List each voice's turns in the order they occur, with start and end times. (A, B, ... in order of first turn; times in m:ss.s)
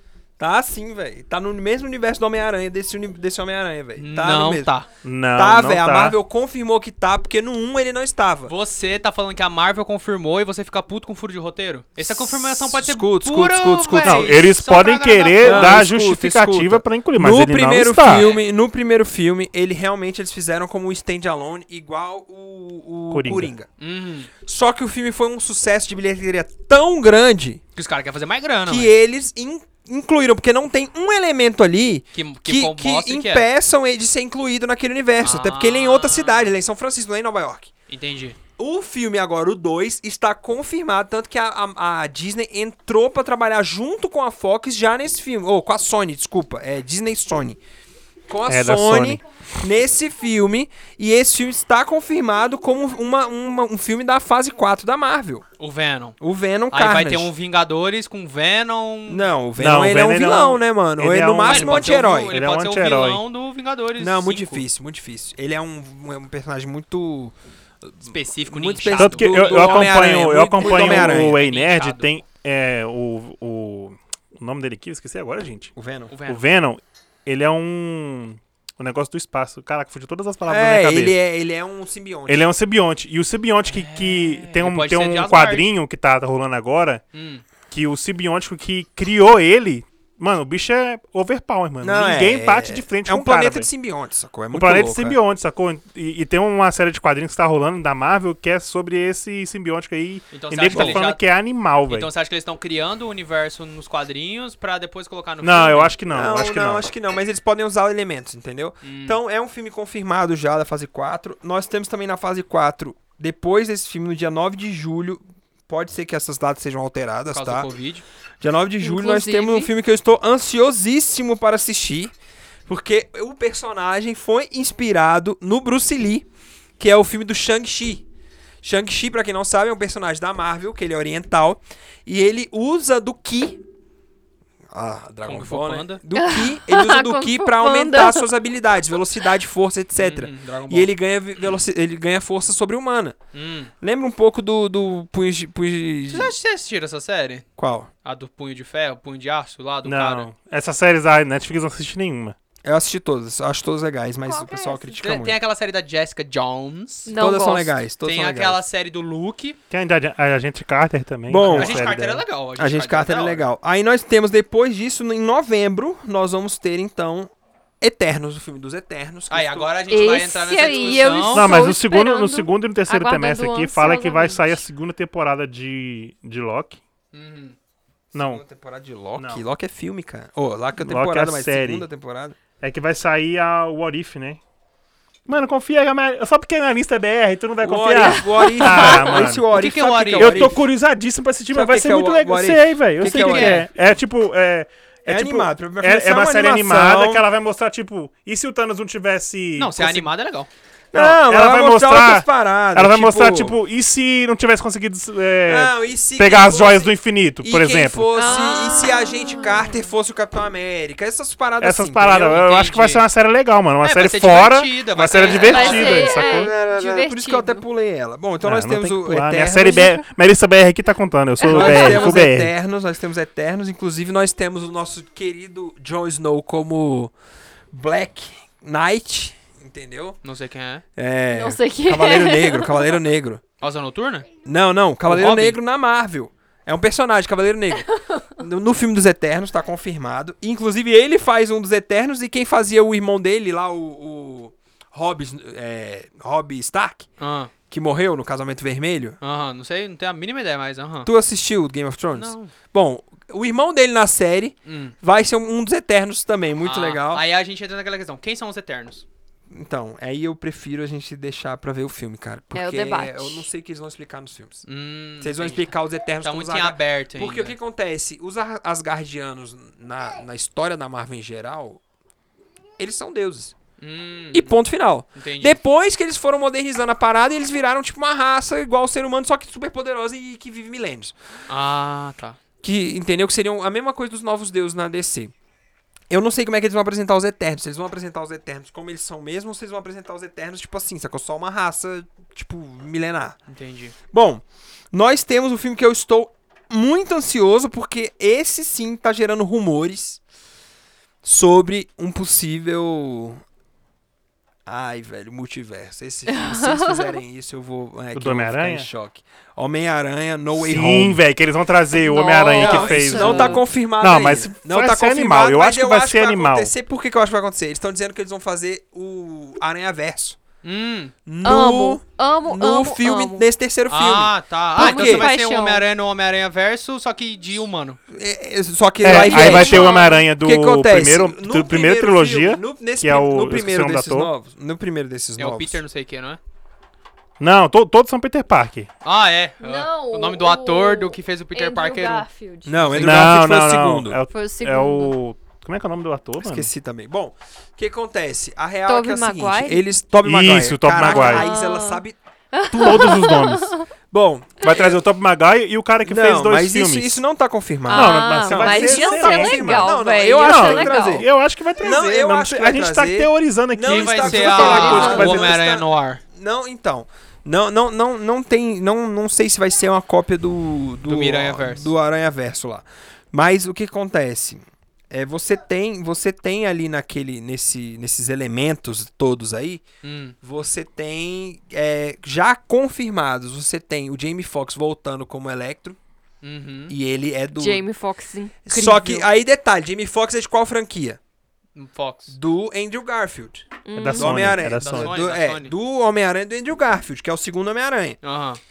0:00.4-0:04.7 A
0:04.0-0:04.9 B
0:05.0-0:06.2 C
0:05.3-0:08.5 A
0:08.5-0:15.8 B
0:12.0-0:14.4 A
0:14.0-0:18.3 C
0:15.4-0:23.7 A
0:18.1-0:18.5 B
0:23.1-0:23.5 C
0:23.8-0:24.3 B
0:24.4-0:27.6 A
0:27.8-0:28.9 B
0:28.7-0:37.7 A
0:32.1-0:33.5 B
0:35.2-0:36.5 B
0:37.9-0:38.4 B
0:38.6-0:47.6 A
0:48.3-0:55.4 A
0:48.5-0:49.2 C
0:55.6-0:56.2 B
0:56.2-0:57.3 A
0:56.7-0:59.3 B
0:59.1-1:02.4 A
0:59.6-1:03.2 C
1:01.4-1:04.6 B
1:04.0-1:11.4 A
1:08.0-1:12.1 B
1:08.9-1:15.7 C
1:15.8-1:16.1 A
1:16.1-1:16.4 B
1:16.3-1:21.2 C
1:20.5-1:22.5 A
1:22.3-1:27.0 C
1:23.7-1:25.7 B
1:27.1-1:27.4 B
1:27.7-1:33.7 C
1:31.8-1:35.2 A
1:34.5-1:42.1 C
1:40.3-1:41.2 B
1:40.7-1:41.0 A
1:41.9-1:46.0 B
1:45.4-1:46.9 C
1:46.1-1:57.7 A
1:48.8-1:49.2 B
1:57.3-1:58.0 B
1:58.4-2:02.1 A
1:58.8-1:59.7 D
2:02.7-2:06.3 A
2:06.8-2:08.0 A
2:08.6-2:13.6 A
2:14.7-2:23.2 A
2:15.3-2:16.0 B
2:16.2-2:18.3 D
2:20.0-2:20.9 B
2:23.3-2:23.7 B
2:23.8-2:26.3 A
2:26.1-2:27.5 B
2:27.6-2:27.9 A
2:28.0-2:30.3 B
2:29.8-2:32.4 C
2:32.6-2:35.4 A
2:34.2-2:35.0 D
2:35.0-2:37.1 B
2:37.1-2:37.8 D
2:37.2-2:38.6 A
2:38.0-2:39.6 B
2:39.7-2:41.9 C
2:41.3-2:49.7 A
2:41.4-2:43.5 B
2:49.3-2:51.5 B
2:49.9-2:54.6 D
2:50.7-2:51.0 A
2:51.3-2:56.8 C
2:57.1-2:57.6 B
2:58.1-3:02.4 A
2:58.1-2:58.4 C
2:59.2-2:59.4 C
3:00.8-3:01.9 C
3:02.6-3:04.4 C
3:05.3-3:09.4 C
3:07.6-3:10.6 A
3:08.0-3:09.1 D
3:09.4-3:10.5 B
3:10.2-3:20.1 C
3:11.5-3:13.9 A
3:13.0-3:13.7 B
3:15.1-3:17.2 A
3:19.6-3:20.5 B
3:20.9-3:23.6 A
3:21.0-3:28.3 C
3:25.5-3:32.4 A
3:28.2-3:29.8 D
3:31.6-3:36.5 C
3:32.2-3:33.0 B
3:33.8-3:36.1 B
3:35.3-3:37.6 D
3:35.5-3:40.0 A
3:38.4-3:42.5 C
3:41.4-3:42.2 D
3:41.4-3:47.1 A
3:47.7-3:50.2 A
3:50.2-3:50.8 B
3:51.0-3:53.4 A
3:51.3-3:53.0 D
3:53.6-3:54.3 B
3:54.4-4:07.1 A
3:55.1-3:55.6 B
3:57.9-3:58.2 D
4:07.2-4:07.5 B
4:07.7-4:09.2 A
4:09.2-4:11.1 B
4:11.0-4:17.2 A
4:12.1-4:12.5 B
4:14.7-4:14.9 B
4:16.6-4:19.0 B
4:19.5-4:24.6 A
4:22.5-4:23.5 D
4:24.7-4:27.6 B
4:25.2-4:31.8 A
4:32.8-4:33.6 A
4:33.8-4:34.6 B
4:34.3-4:41.2 A
4:35.2-4:35.6 B
4:41.5-4:42.4 B
4:42.6-4:45.3 A
4:46.1-4:53.4 A
4:53.5-4:54.0 B
4:54.1-5:00.2 A
5:01.2-5:03.4 A
5:04.7-5:11.2 A
5:06.3-5:07.2 D
5:08.2-5:08.9 C
5:10.6-5:16.7 C
5:12.0-5:13.6 D
5:12.6-5:20.4 A
5:20.6-5:21.1 B
5:21.3-5:25.3 A
5:21.4-5:23.5 D
5:23.9-5:28.0 B
5:24.8-5:25.8 D
5:28.1-5:35.8 A
5:29.0-5:34.3 C
5:29.1-5:30.2 D
5:35.4-5:36.4 B
5:37.4-5:38.9 C
5:39.0-5:42.3 B
5:39.6-5:43.1 D
5:42.7-5:44.2 A
5:43.0-5:46.7 C
5:44.3-5:45.2 D
5:46.4-5:52.2 A
5:48.9-5:49.8 D
5:50.2-5:51.5 C
5:51.0-5:53.9 D
5:52.7-5:53.3 A
5:52.8-5:53.7 C
5:54.1-5:55.0 A
5:54.6-5:57.2 C
5:56.0-6:19.8 A
5:57.9-6:01.2 D
5:57.9-6:05.5 C
6:03.8-6:06.2 B
6:04.4-6:05.4 D
6:11.0-6:11.9 B
6:20.0-6:20.4 B
6:20.4-6:26.0 A
6:26.4-6:26.9 B
6:26.9-6:27.9 A
6:27.6-6:29.3 D
6:28.7-6:31.2 A
6:31.8-6:32.4 B
6:32.3-6:38.2 A
6:33.8-6:34.6 D
6:34.0-6:35.1 C
6:34.8-6:35.7 B
6:38.2-6:38.6 B